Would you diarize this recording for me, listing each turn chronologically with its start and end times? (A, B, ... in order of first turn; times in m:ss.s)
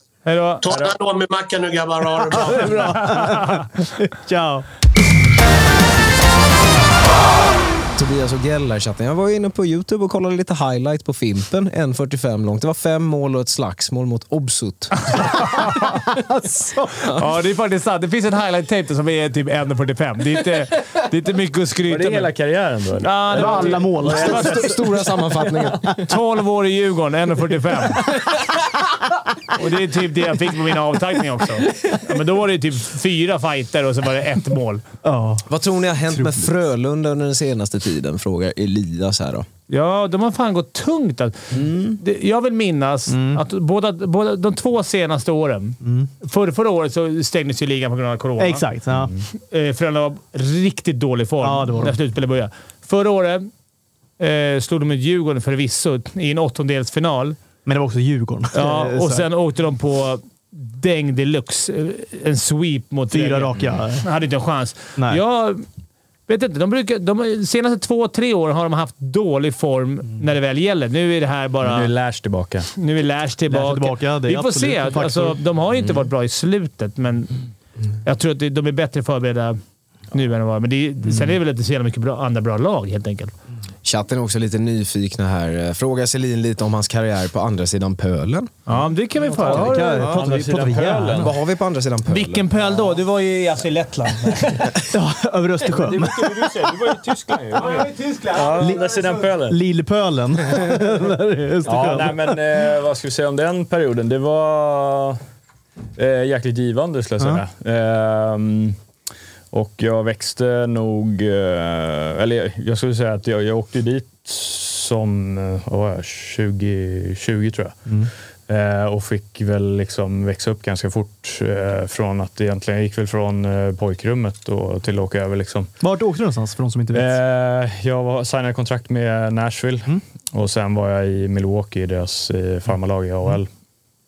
0:00.3-0:00.8 A
0:00.6-0:03.1 B
0:02.3-0:04.7 C
0:02.6-0:03.7 A
0:08.0-0:15.2 D
0:15.4-0:17.0 C
0:17.1-0:22.3 A
0:21.9-0:24.7 E
0:23.0-0:24.7 A
0:23.3-0:24.8 C
0:24.1-0:26.1 D
0:25.7-0:26.0 C
0:26.1-0:28.0 A
0:29.5-0:34.8 A
0:35.0-0:35.5 C
0:35.5-0:39.5 D
0:36.1-0:36.5 C
0:39.7-0:48.7 A
0:41.5-0:42.0 D
0:43.1-0:43.4 C
0:45.8-0:46.1 C
0:48.4-0:49.1 C
0:49.4-0:53.5 A
0:51.4-0:52.0 C
0:54.2-0:57.4 A
0:57.6-0:59.2 C
0:58.5-1:05.6 A
1:03.1-1:04.1 C
1:06.3-1:11.9 A
1:11.6-1:12.7 E
1:12.8-1:17.3 A
1:13.5-1:15.4 C
1:18.0-1:19.6 A
1:20.1-1:23.3 A
1:23.8-1:28.5 D
1:28.7-1:30.2 A
1:29.3-1:31.3 E
1:29.4-1:31.3 C
1:31.2-1:32.7 D
1:32.1-1:34.8 A
1:34.9-1:36.4 C
1:35.7-1:39.6 E
1:37.6-1:39.2 A
1:38.6-1:42.4 C
1:41.6-1:45.2 E
1:46.0-1:48.8 E
1:49.5-1:57.9 E
1:58.5-2:05.7 E
2:05.8-2:07.2 C
2:06.9-2:13.5 E